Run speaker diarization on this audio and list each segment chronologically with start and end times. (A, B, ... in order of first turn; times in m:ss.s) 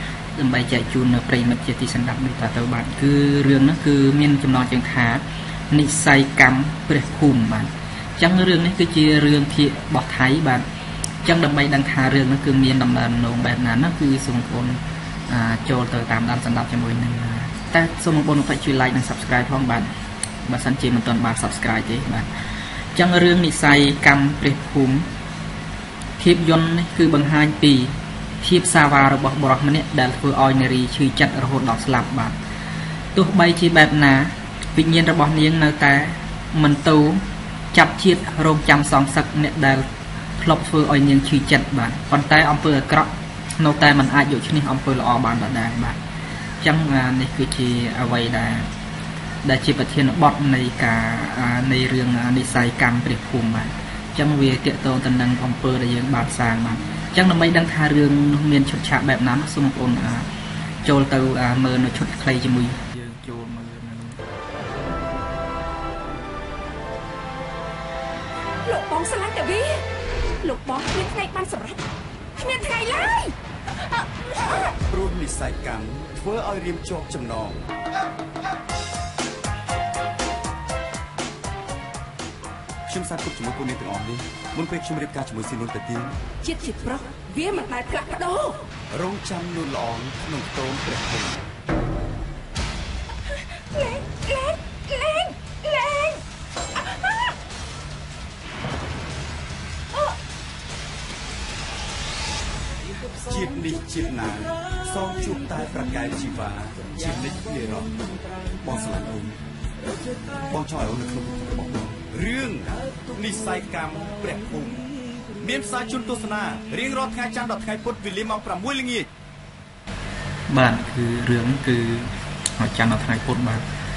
0:00.4-0:10.7 A
0:11.2-0:19.9 A
0:20.4-0:25.1 A
0:26.2-0:32.4 A
0:33.1-0:39.9 A
0:40.4-0:46.0 A
0:46.6-0:48.7 A
0:49.4-1:00.3 A
1:00.8-1:04.2 A
1:08.6-1:09.8 B
1:10.4-1:11.8 B
1:12.4-1:13.4 B
1:14.3-1:14.6 B
1:14.8-1:17.7 C
1:22.9-1:26.2 C
1:26.4-1:28.7 B
1:28.9-1:31.5 C
1:33.3-1:36.2 B
1:36.8-1:37.4 B
1:43.1-1:48.0 C
1:48.6-1:49.4 C
1:50.5-1:59.1 C
2:00.5-2:03.6 A